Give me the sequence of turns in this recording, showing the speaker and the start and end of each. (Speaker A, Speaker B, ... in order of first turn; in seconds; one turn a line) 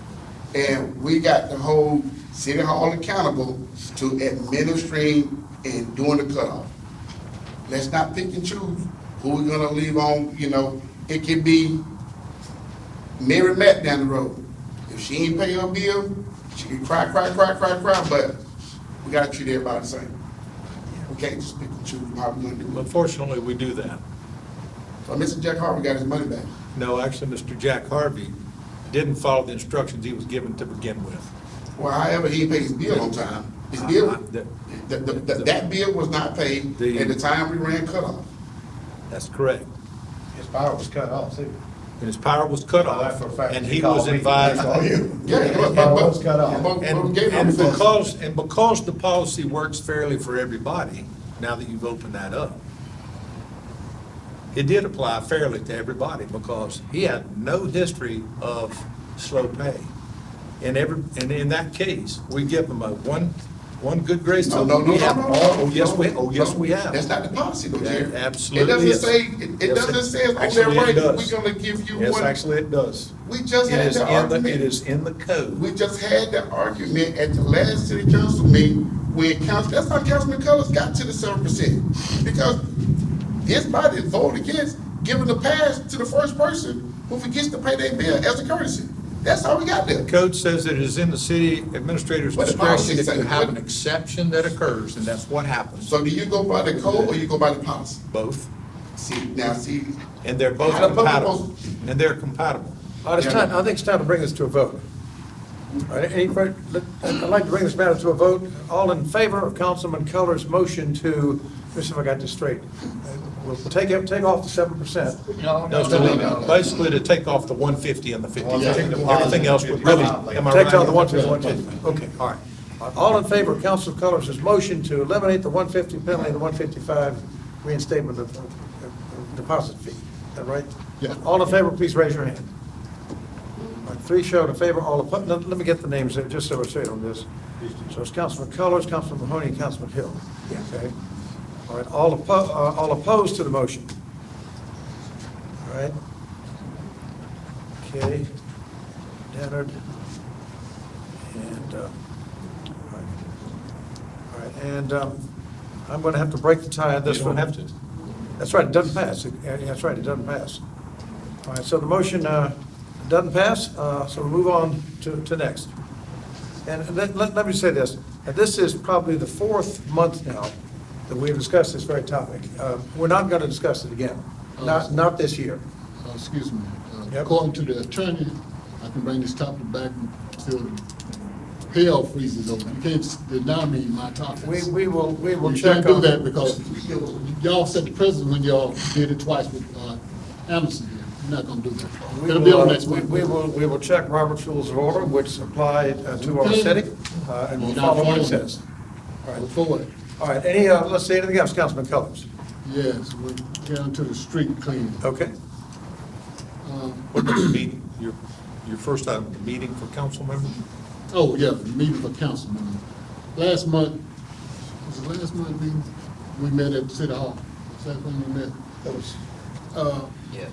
Speaker A: 0.5-6.7
Speaker A: 7.7-11.8
Speaker A: 13.2-18.4
Speaker A: 19.0-20.1
Speaker A: 21.1-22.9
Speaker B: 22.7-24.0
Speaker A: 25.0-26.5
Speaker B: 26.7-28.4
Speaker B: 28.9-31.3
Speaker A: 31.8-34.2
Speaker B: 32.9-34.5
Speaker A: 34.7-38.3
Speaker B: 35.1-35.5
Speaker B: 36.8-37.2
Speaker B: 39.1-39.7
Speaker C: 40.3-41.5
Speaker B: 42.0-44.7
Speaker C: 42.7-46.8
Speaker A: 45.2-47.9
Speaker B: 46.8-52.6
Speaker B: 54.5-59.9
Speaker B: 60.6-67.0
Speaker A: 64.4-72.4
Speaker B: 67.8-71.3
Speaker B: 71.9-73.1
Speaker A: 73.2-74.7
Speaker B: 73.6-75.6
Speaker A: 75.5-82.6
Speaker A: 83.4-90.1
Speaker B: 90.0-95.9
Speaker A: 92.3-93.5
Speaker A: 95.8-98.0
Speaker B: 96.7-97.2
Speaker B: 98.1-98.5
Speaker A: 99.0-100.0
Speaker B: 100.2-102.8
Speaker A: 100.6-101.5
Speaker D: 103.0-104.8
Speaker A: 103.2-103.5
Speaker D: 105.9-116.5
Speaker B: 115.7-121.7
Speaker C: 115.9-116.5
Speaker A: 116.1-116.5
Speaker C: 118.4-120.5
Speaker A: 118.5-119.2
Speaker D: 120.5-132.5
Speaker E: 131.0-131.3
Speaker D: 133.8-137.3
Speaker D: 137.9-140.9
Speaker D: 141.7-143.9
Speaker D: 145.6-145.9
Speaker D: 147.8-148.3
Speaker D: 149.3-149.8
Speaker D: 151.3-151.9
Speaker D: 154.3-155.2
Speaker D: 155.9-157.5
Speaker B: 157.0-157.7
Speaker D: 158.4-160.6
Speaker D: 161.4-165.7
Speaker D: 166.6-170.5
Speaker D: 171.1-175.6
Speaker E: 174.6-175.0
Speaker E: 176.0-180.8
Speaker E: 181.7-184.7
Speaker D: 184.4-186.2
Speaker E: 185.4-193.3
Speaker D: 192.1-198.6
Speaker E: 196.1-196.8
Speaker E: 197.6-198.6
Speaker E: 199.3-199.9
Speaker D: 200.2-202.2
Speaker E: 202.6-205.0
Speaker D: 205.0-205.3
Speaker E: 206.6-207.6
Speaker B: 207.1-210.6
Speaker E: 211.1-212.8
Speaker E: 213.3-213.9
Speaker E: 214.8-218.6
Speaker E: 219.7-220.1